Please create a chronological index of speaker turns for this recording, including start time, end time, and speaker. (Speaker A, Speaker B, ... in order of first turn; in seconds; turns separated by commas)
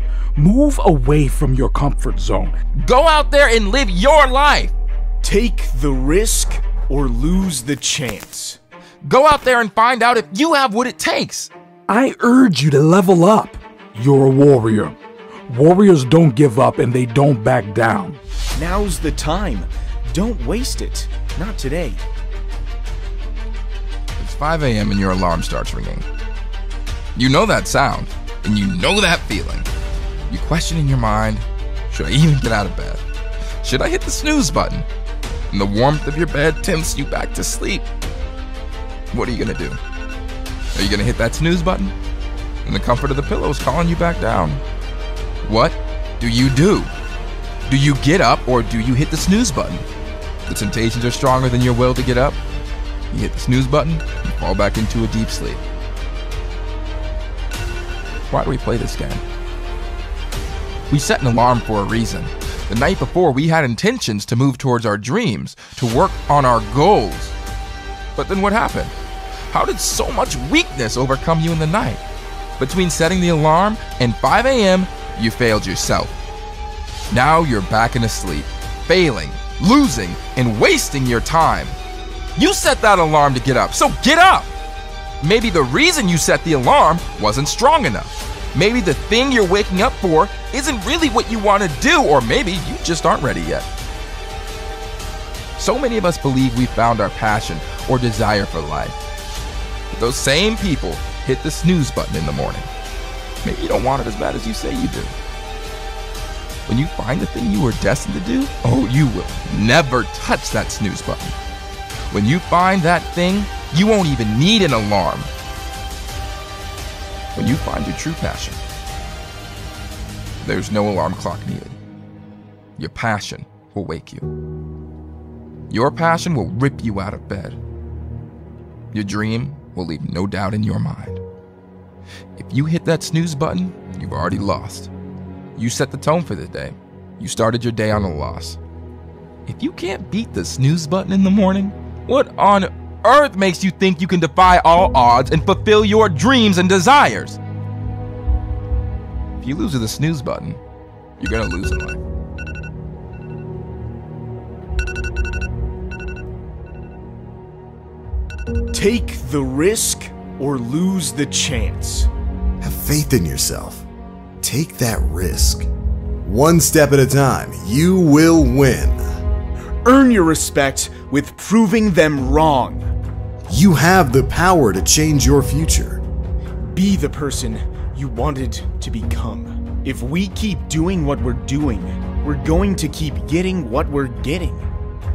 Speaker A: 0.4-2.5, Speaker B: 2.8-4.7, Speaker C: 5.2-8.6, Speaker B: 9.0-11.5, Speaker A: 11.9-15.0, Speaker A: 15.5-18.2, Speaker C: 18.6-22.0, Speaker B: 24.2-26.1, Speaker B: 27.2-29.7, Speaker B: 30.3-33.0, Speaker B: 33.6-34.9, Speaker B: 35.5-37.9, Speaker B: 39.1-39.8, Speaker B: 40.8-41.9, Speaker B: 42.6-44.6, Speaker B: 45.4-46.9, Speaker B: 47.7-49.8, Speaker B: 50.5-52.4, Speaker B: 53.1-55.6, Speaker B: 58.3-59.2, Speaker B: 60.9-67.3, Speaker B: 68.2-68.9, Speaker B: 69.5-72.0, Speaker B: 72.6-76.2, Speaker B: 77.1-81.8, Speaker B: 82.4-84.5, Speaker B: 85.2-93.7, Speaker B: 95.6-99.0, Speaker B: 99.9-102.7, Speaker B: 103.4-105.1, Speaker B: 106.7-111.4, Speaker B: 112.1-115.3, Speaker B: 117.4-118.6, Speaker B: 120.4-121.8, Speaker B: 122.8-124.3, Speaker B: 125.7-127.6, Speaker B: 128.9-131.2, Speaker B: 132.4-134.9, Speaker B: 135.6-138.6, Speaker B: 139.5-147.4, Speaker B: 149.4-150.6, Speaker B: 151.2-152.0, Speaker C: 158.7-162.1, Speaker D: 162.6-163.9, Speaker D: 164.4-165.7, Speaker D: 166.2-169.0, Speaker C: 169.8-172.9, Speaker D: 173.5-176.0, Speaker C: 176.6-184.7